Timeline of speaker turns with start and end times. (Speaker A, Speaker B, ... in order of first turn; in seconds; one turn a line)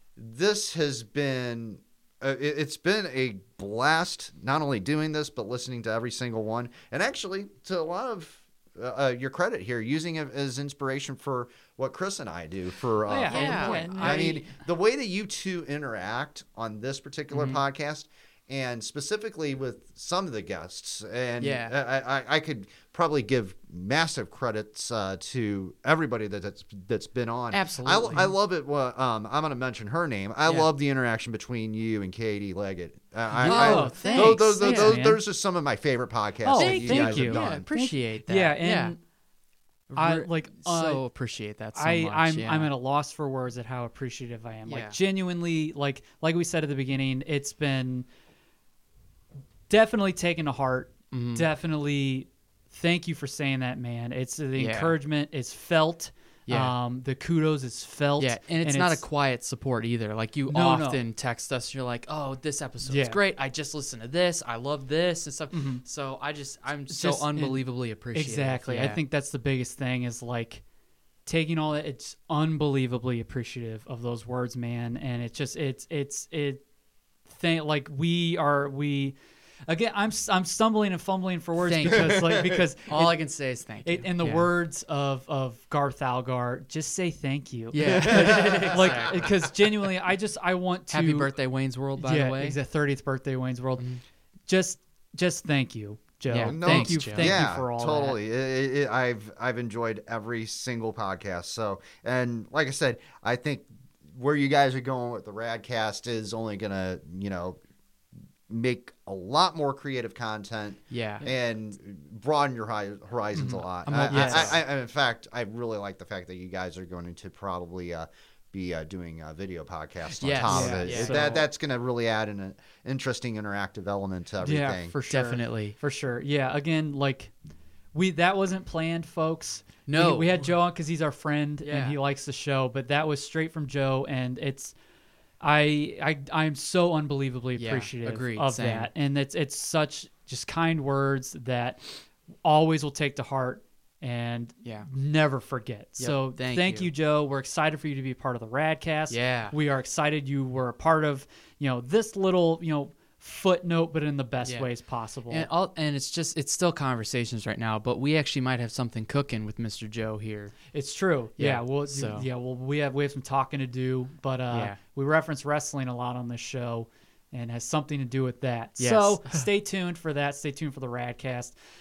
Speaker A: 0.2-37.6
Speaker B: 13.1-14.4
Speaker C: 13.3-14.4
Speaker C: 17.3-17.6
Speaker C: 21.4-21.7
Speaker C: 27.5-28.3
Speaker B: 33.4-35.2
Speaker C: 33.4-35.0
Speaker B: 36.4-39.0
Speaker C: 36.5-39.0
Speaker C: 39.9-42.7
Speaker B: 40.0-41.0
Speaker B: 41.7-48.1
Speaker C: 44.7-45.0
Speaker B: 49.7-59.0
Speaker C: 51.1-51.5
Speaker C: 54.6-55.0
Speaker C: 56.5-56.7
Speaker C: 58.2-69.0
Speaker B: 60.5-61.0
Speaker B: 62.8-63.2
Speaker B: 65.5-65.8
Speaker B: 66.9-67.6
Speaker B: 68.1-70.6
Speaker B: 71.2-76.6
Speaker B: 77.3-79.2
Speaker B: 79.7-83.2
Speaker C: 81.6-82.3
Speaker A: 81.9-82.6
Speaker C: 82.9-84.5
Speaker B: 83.8-91.3
Speaker C: 87.7-89.3
Speaker A: 87.8-89.2
Speaker C: 90.9-92.6
Speaker B: 92.0-93.8
Speaker B: 94.5-98.2
Speaker C: 96.3-97.3
Speaker A: 96.4-107.6
Speaker A: 108.5-124.9
Speaker C: 110.9-111.3
Speaker B: 113.4-114.6
Speaker C: 113.4-114.6
Speaker C: 120.1-121.4
Speaker B: 120.5-121.4
Speaker B: 124.4-127.3
Speaker C: 125.1-125.8
Speaker B: 127.9-134.7
Speaker C: 129.9-130.4
Speaker C: 131.6-131.9
Speaker B: 135.4-141.8
Speaker C: 137.6-138.9
Speaker B: 142.4-155.5
Speaker C: 146.0-146.9
Speaker C: 149.1-149.5
Speaker C: 155.3-160.6
Speaker B: 160.7-171.5
Speaker C: 161.4-162.3
Speaker C: 164.5-164.8
Speaker C: 168.8-169.4